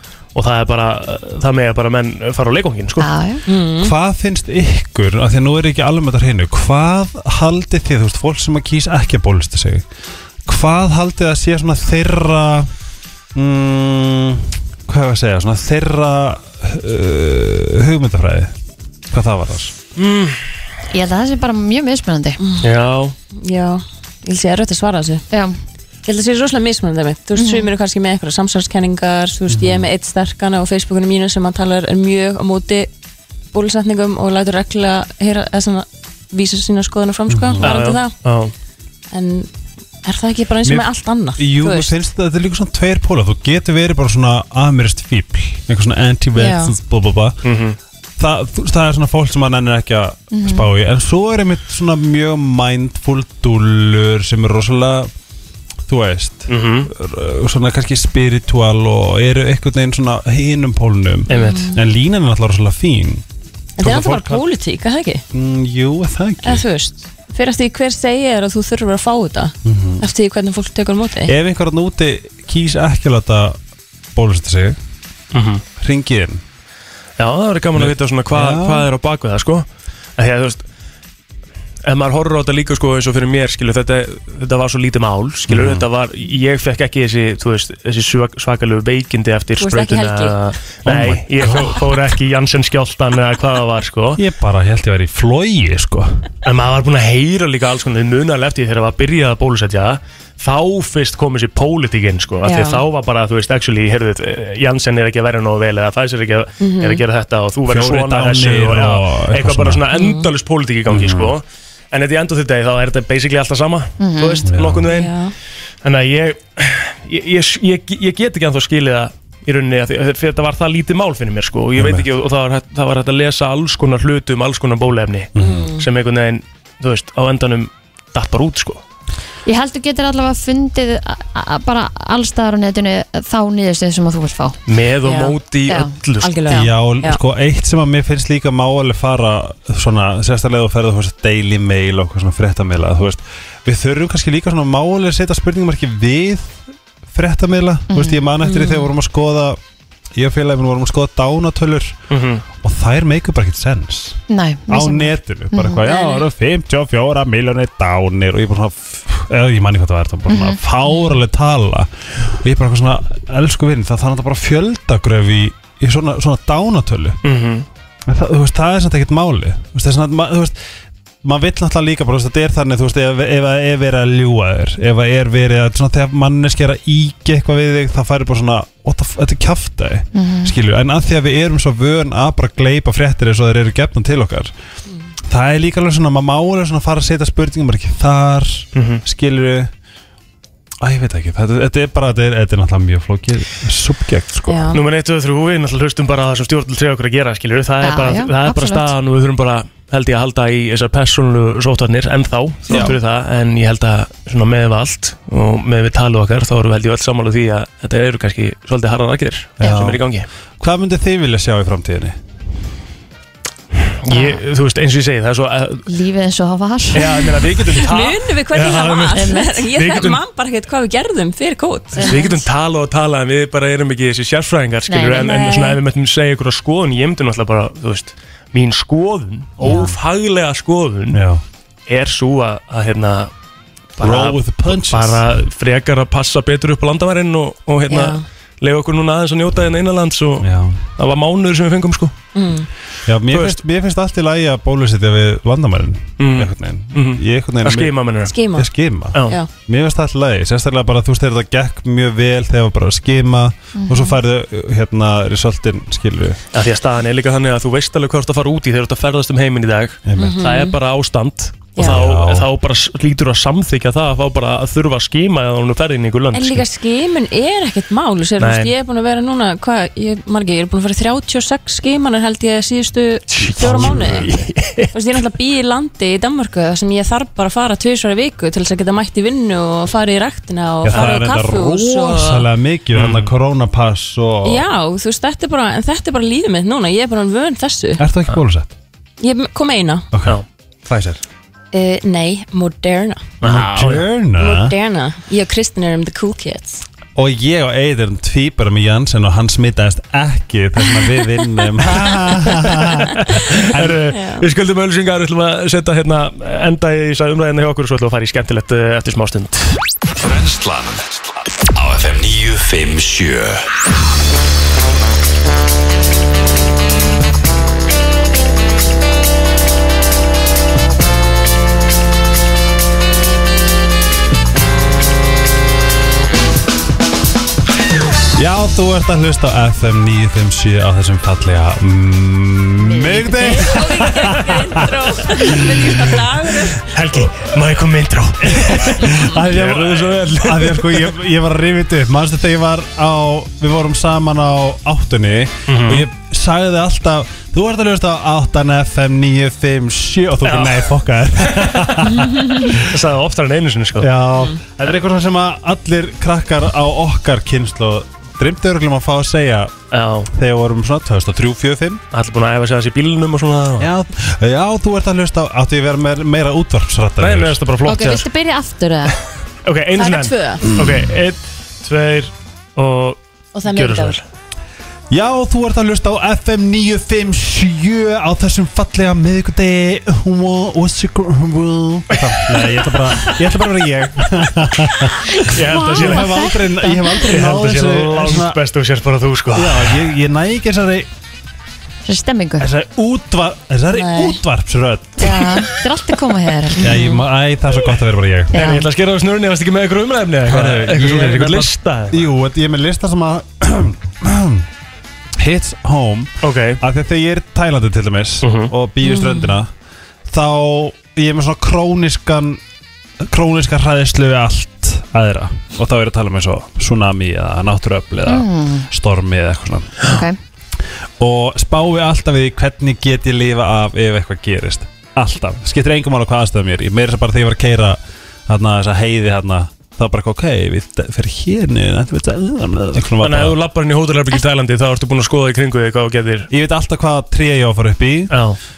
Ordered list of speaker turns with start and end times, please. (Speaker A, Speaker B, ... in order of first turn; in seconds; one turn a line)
Speaker A: 0.3-3.1
Speaker B: 3.0-3.4
Speaker C: 3.5-3.9
Speaker D: 3.8-9.8
Speaker D: 10.4-12.7
Speaker D: 13.3-18.5
Speaker D: 19.1-19.7
Speaker A: 20.0-20.4
Speaker B: 20.9-22.4
Speaker C: 22.4-22.7
Speaker A: 22.6-23.1
Speaker C: 23.3-25.2
Speaker C: 26.1-32.9
Speaker B: 27.4-27.7
Speaker D: 29.5-29.9
Speaker C: 33.5-38.1
Speaker D: 37.3-37.8
Speaker A: 37.6-38.5
Speaker C: 39.1-39.5
Speaker C: 40.0-41.9
Speaker D: 40.6-47.4
Speaker C: 46.4-46.7
Speaker A: 47.4-47.8
Speaker D: 48.2-55.1
Speaker B: 50.3-50.7
Speaker D: 55.9-63.2
Speaker A: 56.5-56.9
Speaker A: 61.3-61.7
Speaker C: 61.3-61.8
Speaker C: 63.8-65.2
Speaker D: 63.8-64.4
Speaker D: 65.3-66.7
Speaker C: 66.4-71.3
Speaker D: 69.7-70.1
Speaker D: 71.3-73.6
Speaker D: 74.2-74.8
Speaker A: 75.3-75.6
Speaker D: 75.8-76.4
Speaker A: 77.2-79.7
Speaker D: 77.8-78.9
Speaker A: 80.2-80.6
Speaker A: 81.8-94.2
Speaker D: 85.5-85.9
Speaker C: 89.6-90.4
Speaker D: 90.9-91.8
Speaker D: 94.2-96.3
Speaker A: 96.4-115.2
Speaker C: 102.4-102.8
Speaker C: 106.6-107.0
Speaker D: 107.7-109.8
Speaker C: 109.9-110.3
Speaker D: 110.9-111.3
Speaker B: 114.0-114.5
Speaker D: 114.5-114.9
Speaker C: 114.9-115.3
Speaker A: 115.8-128.8
Speaker D: 121.8-122.1
Speaker D: 125.4-125.7
Speaker C: 125.4-125.9
Speaker B: 129.5-134.6
Speaker A: 134.7-136.5
Speaker C: 135.0-135.4
Speaker C: 136.2-137.2
Speaker D: 136.5-149.6
Speaker B: 147.9-148.2
Speaker C: 148.5-148.9
Speaker D: 150.2-152.0
Speaker A: 152.1-152.4
Speaker D: 152.6-167.2
Speaker B: 154.3-155.9
Speaker B: 160.3-160.6
Speaker A: 167.2-167.7
Speaker D: 168.1-170.6
Speaker D: 171.2-184.5
Speaker B: 180.1-180.5
Speaker D: 185.3-189.7
Speaker A: 188.8-189.0
Speaker D: 190.8-194.8
Speaker C: 194.5-194.8
Speaker A: 194.7-210.3
Speaker B: 197.8-198.9
Speaker D: 209.6-210.0
Speaker D: 210.6-212.2
Speaker A: 213.9-215.9
Speaker B: 214.1-214.4
Speaker B: 215.9-217.4
Speaker A: 216.9-220.2
Speaker C: 217.7-222.4
Speaker B: 222.0-222.3
Speaker A: 222.0-231.2
Speaker B: 224.9-225.4
Speaker C: 225.2-225.8
Speaker D: 231.1-231.4
Speaker A: 231.9-233.3
Speaker A: 234.0-242.2
Speaker D: 234.0-235.2
Speaker C: 237.9-238.2
Speaker D: 240.4-240.8
Speaker C: 242.3-242.7
Speaker D: 243.1-256.4
Speaker A: 243.3-243.6
Speaker A: 246.2-248.3
Speaker C: 248.2-248.7
Speaker B: 253.8-254.1
Speaker A: 256.5-266.6
Speaker D: 260.1-260.5
Speaker C: 260.2-260.8
Speaker C: 261.8-262.0
Speaker D: 261.8-262.5
Speaker C: 266.3-274.3
Speaker A: 268.4-268.7
Speaker A: 273.3-274.9
Speaker D: 273.6-274.2
Speaker C: 274.9-282.5
Speaker D: 280.8-284.7
Speaker A: 280.9-281.2
Speaker A: 282.9-283.3
Speaker C: 284.4-288.0
Speaker D: 288.0-288.7
Speaker C: 289.2-290.1
Speaker D: 290.1-291.2
Speaker C: 291.7-293.3
Speaker A: 293.4-294.1
Speaker D: 293.4-294.8
Speaker C: 294.4-296.8
Speaker D: 297.1-304.0
Speaker A: 303.2-309.8
Speaker C: 304.1-304.5
Speaker E: 310.2-313.8
Speaker D: 328.3-336.1
Speaker C: 333.0-336.9
Speaker A: 336.8-341.2
Speaker D: 338.4-353.0
Speaker A: 345.7-346.1
Speaker A: 350.4-350.9
Speaker A: 351.5-352.0
Speaker A: 352.8-354.1
Speaker D: 354.0-359.7
Speaker A: 359.9-360.3
Speaker D: 360.3-362.0
Speaker A: 362.1-363.9
Speaker D: 363.8-367.6
Speaker A: 367.2-368.3
Speaker B: 367.9-369.2
Speaker A: 369.6-374.2
Speaker C: 370.0-370.7
Speaker C: 373.6-374.2
Speaker D: 375.1-388.6
Speaker A: 382.1-382.7
Speaker B: 385.4-387.0
Speaker A: 385.5-386.4
Speaker A: 387.2-390.1
Speaker D: 389.5-391.1
Speaker B: 392.1-392.7
Speaker D: 392.6-395.5
Speaker C: 393.9-394.4
Speaker B: 395.2-396.9
Speaker D: 396.8-398.6
Speaker C: 396.9-397.2
Speaker B: 398.5-398.9
Speaker A: 398.5-402.3
Speaker D: 400.5-404.7
Speaker D: 405.4-409.7
Speaker A: 406.4-406.8
Speaker A: 408.4-408.7
Speaker C: 409.1-409.5
Speaker D: 410.3-412.6
Speaker D: 413.2-420.1
Speaker B: 418.2-418.9
Speaker B: 420.0-420.4
Speaker D: 421.2-433.6
Speaker A: 433.2-436.5
Speaker D: 436.5-438.4
Speaker A: 438.3-438.6